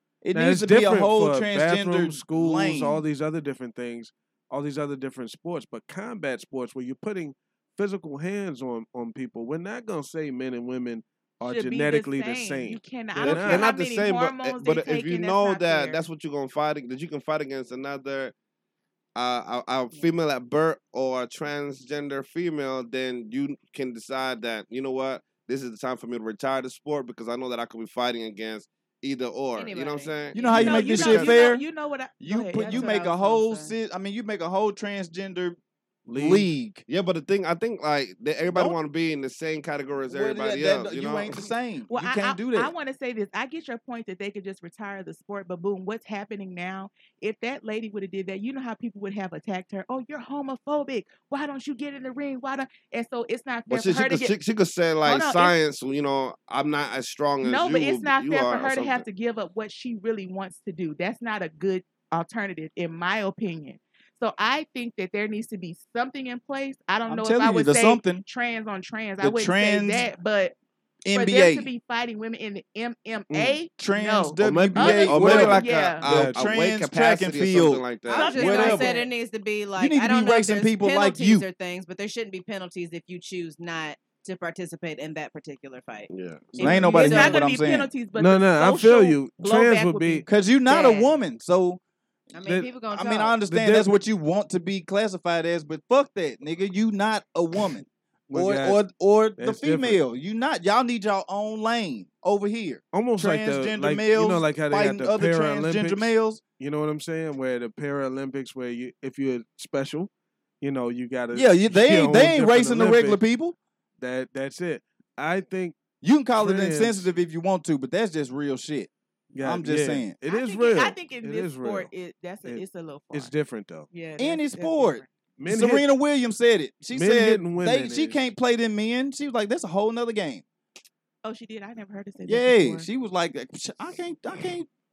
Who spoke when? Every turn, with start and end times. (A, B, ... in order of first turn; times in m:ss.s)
0:00.2-0:03.0 A
0:00.3-0:13.6 B
0:11.4-0:16.0 C
0:13.2-0:18.3 D
0:19.2-0:30.3 D
0:29.5-0:31.5 E
0:30.3-0:31.6 A
0:30.5-0:33.0 C
0:32.2-0:35.6 A
0:32.6-0:33.7 E
0:36.1-0:36.5 B
0:36.1-0:36.8 A
0:36.9-0:41.4 D
0:38.4-0:38.8 A
0:40.1-0:42.7 A
0:41.9-0:54.3 C
0:53.7-0:59.0 D
0:55.0-0:55.5 C
0:57.4-1:10.5 C
1:07.0-1:08.2 A
1:09.2-1:10.1 A
1:11.0-1:11.7 A
1:11.1-1:16.0 C
1:13.8-1:19.0 A
1:14.4-1:16.4 B
1:15.0-1:18.6 D
1:18.0-1:26.1 E
1:18.1-1:19.1 C
1:19.8-1:21.4 A
1:26.1-1:26.9 D
1:26.6-1:27.9 A
1:26.6-1:30.2 C
1:26.6-1:27.4 E
1:28.2-1:30.2 B
1:30.2-1:31.8 A
1:30.7-1:31.1 E
1:32.3-1:33.4 E
1:32.4-1:32.7 B
1:32.9-1:46.4 A
1:33.5-1:33.9 B
1:38.3-1:38.8 B
1:39.4-1:40.0 B
1:42.9-1:50.1 B
1:50.6-1:53.2 B
1:51.3-1:53.6 A
1:54.0-1:55.8 B
1:56.0-1:58.9 A
1:56.4-1:57.1 B
1:59.3-2:01.9 B
1:59.4-2:00.1 A
2:00.3-2:03.3 C
2:02.4-2:03.9 B
2:03.9-2:05.0 C
2:04.2-2:10.4 A
2:05.4-2:05.9 B
2:06.9-2:08.2 B
2:11.2-2:12.9 C
2:12.2-2:14.7 A